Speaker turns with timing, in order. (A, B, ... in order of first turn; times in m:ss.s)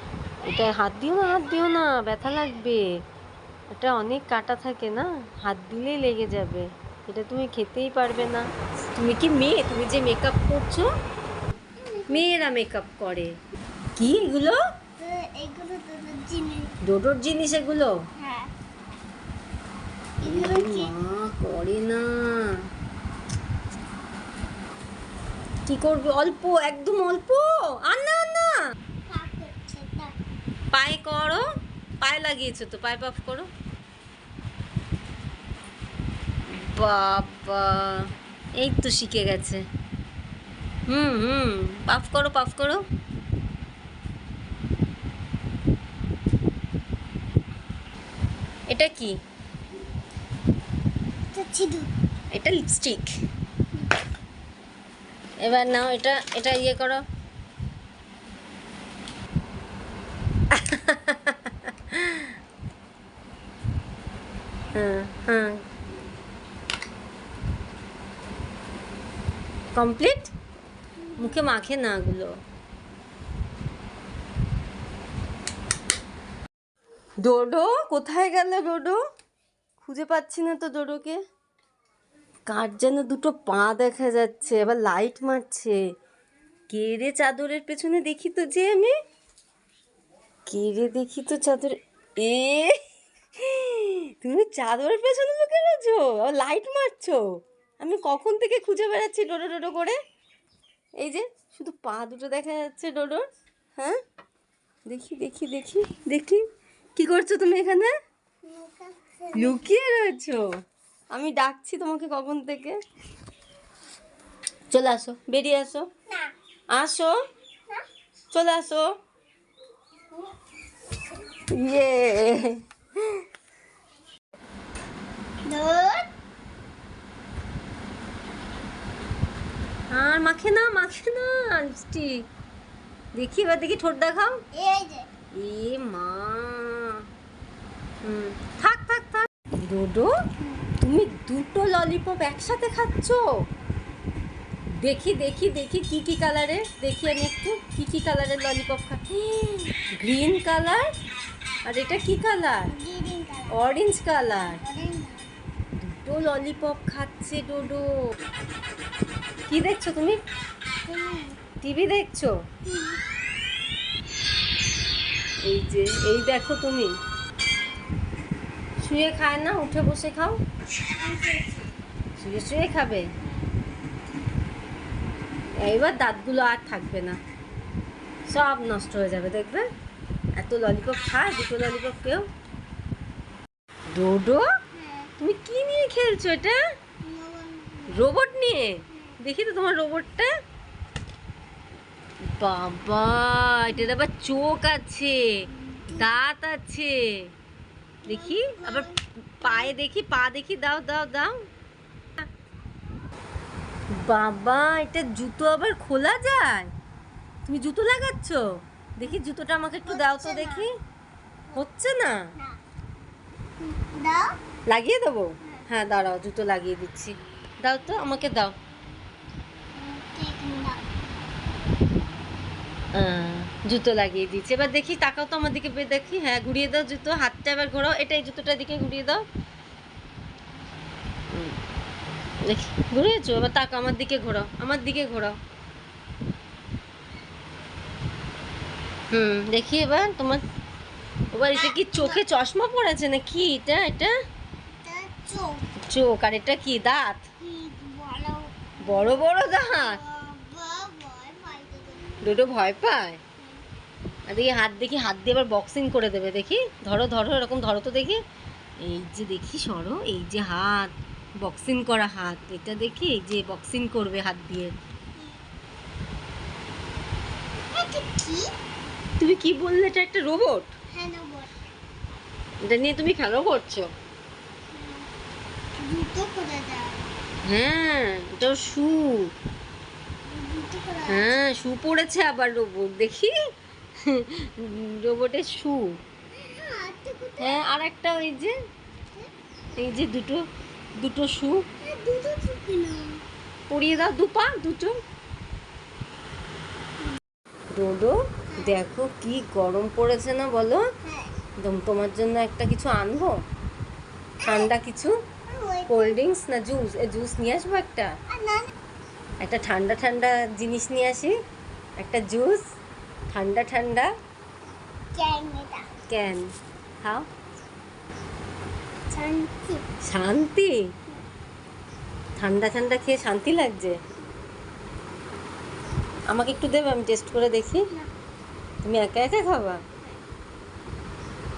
0:00.4-0:02.8 A
0:03.7-0:10.9 A
0:11.8-0:12.2 B
0:12.1-0:13.3 A
0:14.0-0:14.6 A
0:15.0-0:16.8 B
0:16.8-0:17.9 A
0:18.2-0:18.5 B
0:20.2-0:20.9 B
0:20.2-0:22.6 A
0:25.7-0:28.6 A
0:29.1-0:30.1 B
0:30.7-0:31.4 A
0:32.0-0:33.5 A
0:36.5-0:39.6 A
0:40.9-0:42.8 A
0:48.7-0:49.1 A
0:51.3-0:51.9 B
0:52.3-0:53.1 A
0:55.4-0:57.0 A
1:00.5-1:02.3 A
1:04.7-1:05.6 A
1:09.7-1:10.3 A
1:11.2-1:12.4 A
1:17.2-1:19.0 A
1:19.8-1:21.2 A
1:22.5-1:25.8 A
1:26.7-1:28.9 A
1:30.5-1:32.8 A
1:33.4-1:37.2 A
1:37.8-1:40.0 A
1:41.0-1:43.2 A
1:44.9-1:46.4 A
1:47.0-1:47.9 A
1:48.4-1:49.6 B
1:49.3-1:50.4 A
1:51.1-1:52.8 A
1:54.7-1:55.9 A
1:56.7-1:57.2 A
1:58.3-1:58.9 A
2:01.3-2:03.2 A
2:05.4-2:06.1 B
2:09.9-2:12.3 A
2:13.1-2:14.3 A
2:14.5-2:15.1 B
2:15.3-2:17.0 A
2:18.0-2:20.1 A
2:20.8-2:23.3 A
2:24.7-2:30.9 A
2:31.6-2:32.7 A
2:32.7-2:33.6 B
2:33.5-2:34.6 A
2:34.6-2:35.3 B
2:35.8-2:37.9 A
2:39.5-2:40.2 A
2:40.8-2:41.4 B
2:41.6-2:42.3 A
2:42.6-2:43.0 B
2:45.4-2:46.9 A
2:48.8-2:50.4 A
2:50.9-2:51.7 B
2:52.2-2:53.0 A
2:55.6-2:57.2 A
2:58.3-2:59.6 A
3:00.4-3:02.2 A
3:03.9-3:04.4 A
3:04.7-3:05.1 B
3:05.2-3:06.6 A
3:07.0-3:08.1 B
3:07.9-3:10.3 A
3:12.4-3:17.3 A
3:15.6-3:16.1 B
3:18.0-3:19.7 B
3:18.1-3:18.9 A
3:19.4-3:21.4 A
3:24.0-3:26.7 A
3:27.4-3:30.7 A
3:29.8-3:30.7 B
3:31.5-3:32.2 A
3:33.6-3:34.3 B
3:34.7-3:38.5 A
3:39.7-3:40.8 B
3:42.9-3:49.2 A
3:51.3-3:51.6 A
3:52.4-3:55.4 A
3:59.1-4:00.4 A
4:01.3-4:04.1 A
4:01.5-4:02.2 B
4:04.7-4:05.7 B
4:05.8-4:07.2 A
4:07.4-4:12.2 B
4:08.8-4:10.0 A
4:12.2-4:13.2 A
4:14.3-4:18.2 A
4:18.8-4:24.7 A
4:27.7-4:28.5 B
4:29.2-4:30.7 A
4:30.9-4:31.5 B
4:32.6-4:33.9 A
4:34.7-4:35.1 B
4:35.8-4:37.0 B
4:37.4-4:39.3 A
4:40.2-4:41.4 B
4:41.1-4:43.3 A
4:44.0-4:46.0 A
4:46.4-4:47.7 B
4:47.4-4:48.5 A
4:49.8-4:50.4 A
4:51.0-4:51.6 A
4:51.8-4:53.2 B
4:53.7-4:54.9 A
4:57.7-5:00.8 A
4:58.5-4:58.8 B
5:01.0-5:01.4 B
5:01.6-5:03.4 A
5:04.4-5:04.7 B
5:04.4-5:05.2 A
5:05.5-5:06.2 B
5:05.9-5:08.1 A
5:08.3-5:08.7 B
5:09.4-5:11.3 A
5:12.0-5:12.6 A
5:13.3-5:14.1 A
5:15.1-5:15.9 B
5:16.1-5:16.5 A
5:17.0-5:17.3 A
5:19.1-5:19.8 B
5:20.0-5:20.8 A
5:22.4-5:24.0 A
5:26.3-5:27.8 A
5:28.8-5:29.8 A